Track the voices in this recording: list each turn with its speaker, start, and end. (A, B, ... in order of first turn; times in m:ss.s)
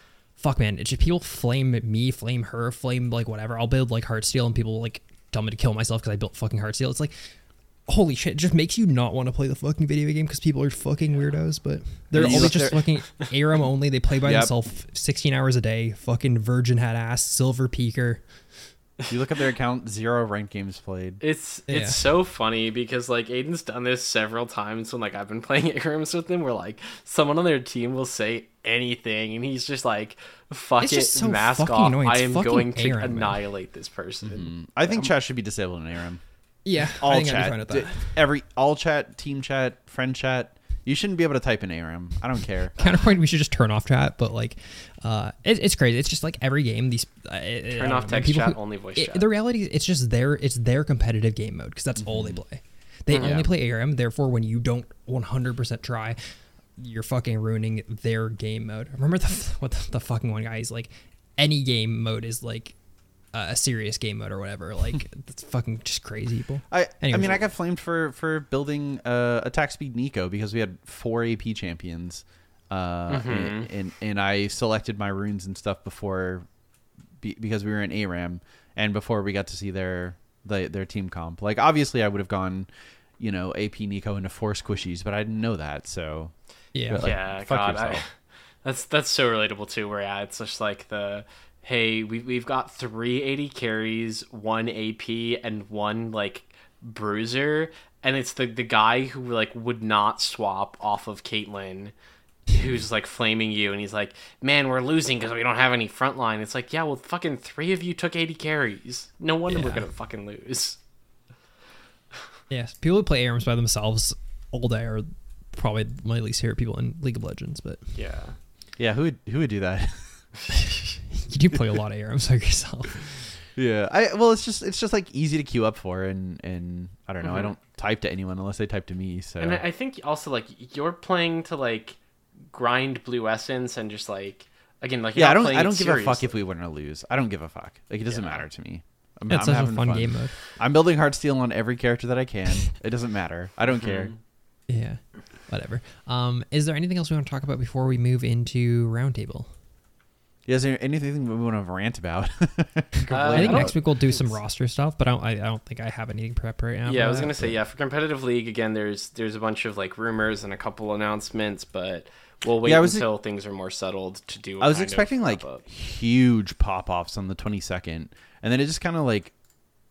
0:00.3-0:18.5 A
0:12.1-0:12.8 B
0:12.2-0:12.9 C
0:14.2-0:14.5 B
0:19.1-0:21.2 B
0:21.2-0:35.1 C
0:21.7-0:22.0 A
0:30.8-0:33.4 A
0:34.2-0:36.2 B
0:36.6-0:38.2 A
0:36.8-0:42.9 B
0:42.8-0:56.2 A
0:47.7-0:49.3 C
0:52.0-0:52.4 B
0:53.1-0:53.4 C
0:53.2-0:53.5 B
0:56.8-1:02.8 A
1:03.3-1:07.4 A
1:06.7-1:16.5 B
1:13.1-1:13.7 C
1:17.2-1:22.7 B
1:23.2-1:28.0 B
1:26.7-1:27.1 A
1:27.0-1:41.9 C
1:42.5-1:50.8 C
1:49.5-1:49.9 A
1:52.5-1:57.9 A
1:58.0-1:58.4 C
1:58.8-2:00.3 B
2:00.5-2:03.4 A
2:03.6-2:09.6 B
2:07.2-2:07.5 C
2:09.4-2:12.0 C
2:12.5-2:16.4 C
2:15.2-2:24.2 B
2:18.1-2:18.4 C
2:19.3-2:20.3 A
2:23.7-2:24.2 C
2:24.7-2:29.5 A
2:30.5-2:33.8 B
2:33.1-2:34.4 C
2:33.3-2:37.6 A
2:36.9-2:45.6 C
2:42.6-2:43.1 B
2:44.6-2:49.4 B